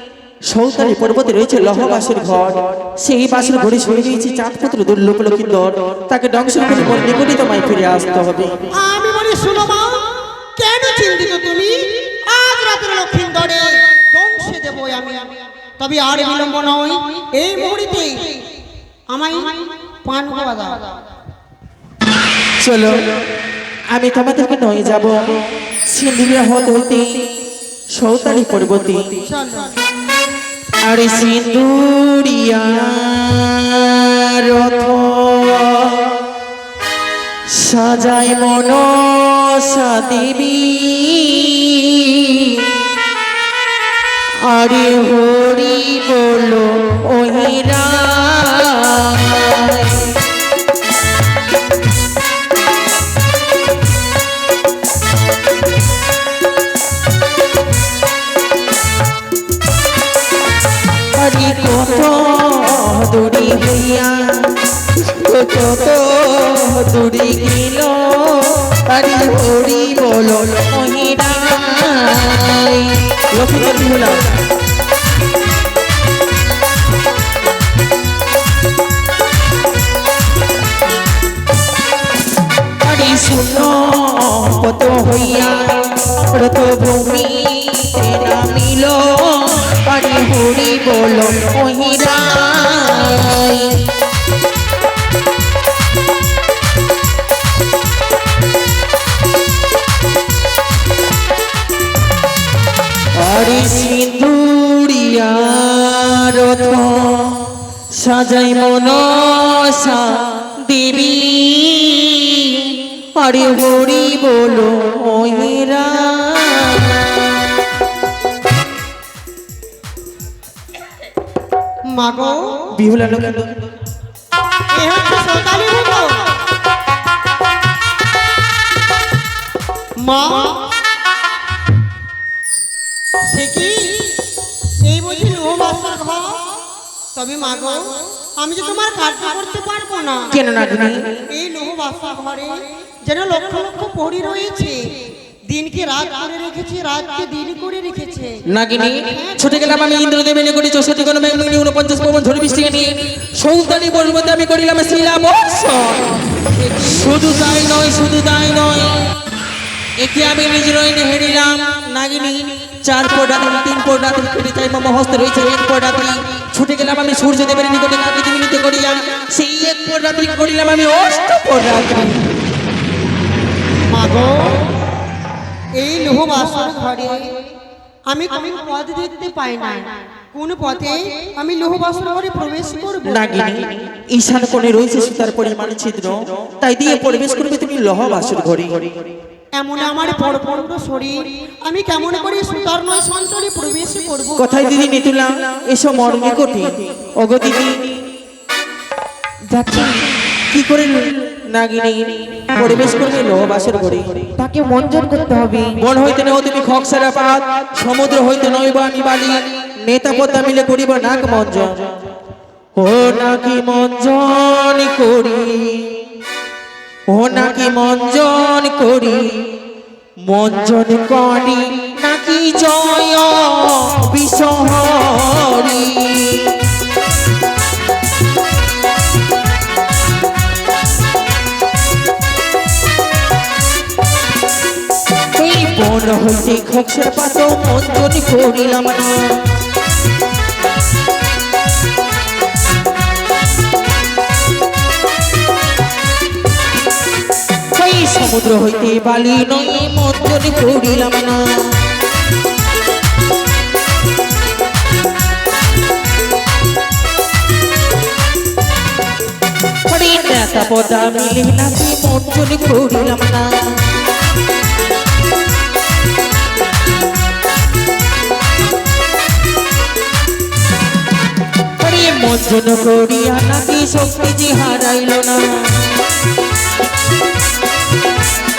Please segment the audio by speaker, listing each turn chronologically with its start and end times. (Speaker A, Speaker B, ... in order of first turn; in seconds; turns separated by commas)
Speaker A: 0.5-8.6, Speaker B: 8.7-18.4, Speaker B: 19.1-21.0, Speaker A: 22.6-23.2, Speaker A: 23.9-27.3, Speaker A: 27.9-29.1, Speaker B: 29.2-29.7, Speaker A: 30.8-36.2, Speaker A: 37.5-42.8, Speaker A: 44.5-50.2, Speaker A: 61.1-74.2, Speaker A: 82.8-93.9, Speaker A: 103.2-117.5, Speaker B: 121.9-122.7, Speaker A: 122.7-123.7, Speaker B: 124.7-126.4, Speaker B: 130.0-130.7, Speaker B: 133.2-134.2, Speaker B: 134.8-136.5, Speaker B: 137.1-140.3, Speaker A: 140.3-141.2, Speaker B: 141.3-144.8, Speaker B: 145.5-148.4, Speaker A: 148.5-156.1, Speaker B: 149.0-149.4, Speaker A: 156.7-159.0, Speaker A: 160.0-172.3, Speaker B: 173.9-174.6, Speaker B: 175.7-177.2, Speaker B: 178.1-183.2, Speaker A: 183.1-188.9, Speaker B: 189.5-194.5, Speaker A: 194.4-197.9, Speaker C: 199.5-200.0, Speaker A: 200.5-204.2, Speaker C: 204.4-205.8, Speaker A: 205.8-211.9, Speaker A: 212.8-216.0, Speaker A: 217.1-219.4, Speaker A: 220.2-226.7, Speaker A: 235.3-239.3, Speaker A: 247.7-251.5, Speaker A: 259.9-263.5, Speaker A: 271.8-275.9